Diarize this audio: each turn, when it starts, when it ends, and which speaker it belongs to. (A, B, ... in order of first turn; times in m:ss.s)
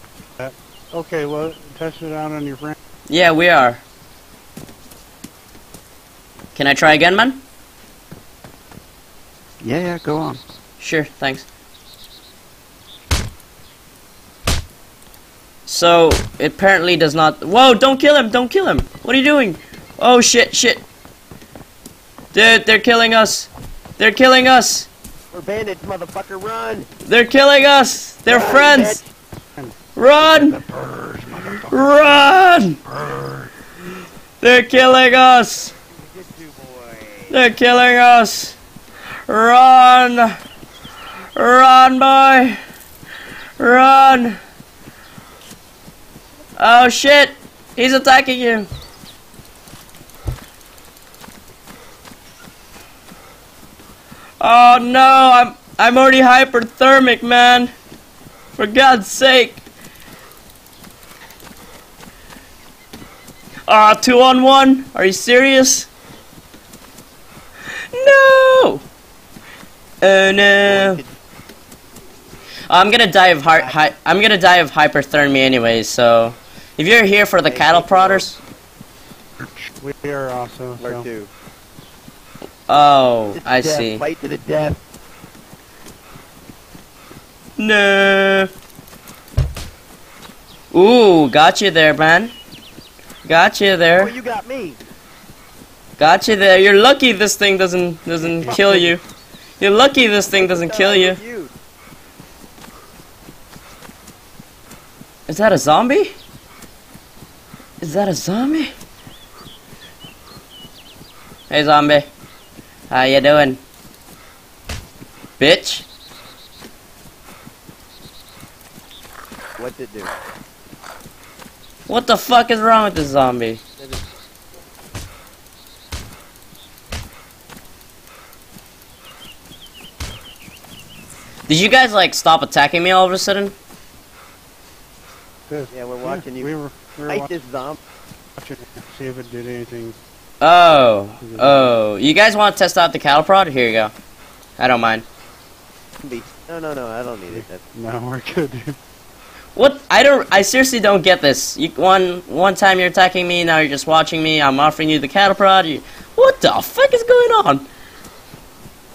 0:00.4-0:02.8 A
0:03.1-0:03.8 B
0:06.6-0:07.4 B
0:09.6-0:10.4 C
0:10.8-0:11.5 B
0:15.7-0:20.8 B
0:22.3-0:24.9 B
0:25.3-0:26.9 D
0:27.0-0:29.0 B
0:28.3-0:29.1 D
0:30.0-0:30.6 B
0:30.2-0:32.3 C
0:31.7-0:32.8 B
0:32.8-0:33.5 C
0:34.4-0:35.7 B
0:35.9-0:37.4 D
0:37.3-0:38.6 B
0:39.3-0:40.4 B
0:41.4-0:42.6 B
0:43.6-0:44.4 B
0:46.6-0:48.7 B
0:54.4-0:57.7 B
0:58.6-0:59.6 B
1:03.7-1:05.9 B
1:07.9-1:08.8 B
1:10.0-1:11.0 B
1:10.6-1:11.1 D
1:12.7-1:18.4 B
1:17.4-1:18.3 D
1:19.7-1:21.1 A
1:20.8-1:21.3 D
1:22.7-1:24.0 B
1:23.3-1:24.8 D
1:27.6-1:28.5 B
1:30.7-1:32.3 B
1:33.2-1:34.1 B
1:34.0-1:34.8 D
1:36.0-1:39.0 B
1:38.2-1:38.8 D
1:38.4-1:38.9 A
1:39.6-1:41.2 B
1:40.3-1:41.5 D
1:45.3-1:46.1 B
1:47.8-1:48.7 B
1:51.5-1:52.1 B
1:52.9-1:53.6 B
1:55.4-1:55.9 B
1:59.6-2:00.1 D
2:01.9-2:03.6 B
2:11.5-2:13.5 B
2:15.5-2:17.3 A
2:15.7-2:16.5 D
2:17.1-2:17.8 D
2:18.4-2:20.0 A
2:20.4-2:23.9 B
2:21.2-2:21.8 A
2:24.6-2:25.1 B
2:26.0-2:27.6 D
2:27.3-2:28.8 A
2:29.6-2:37.6 B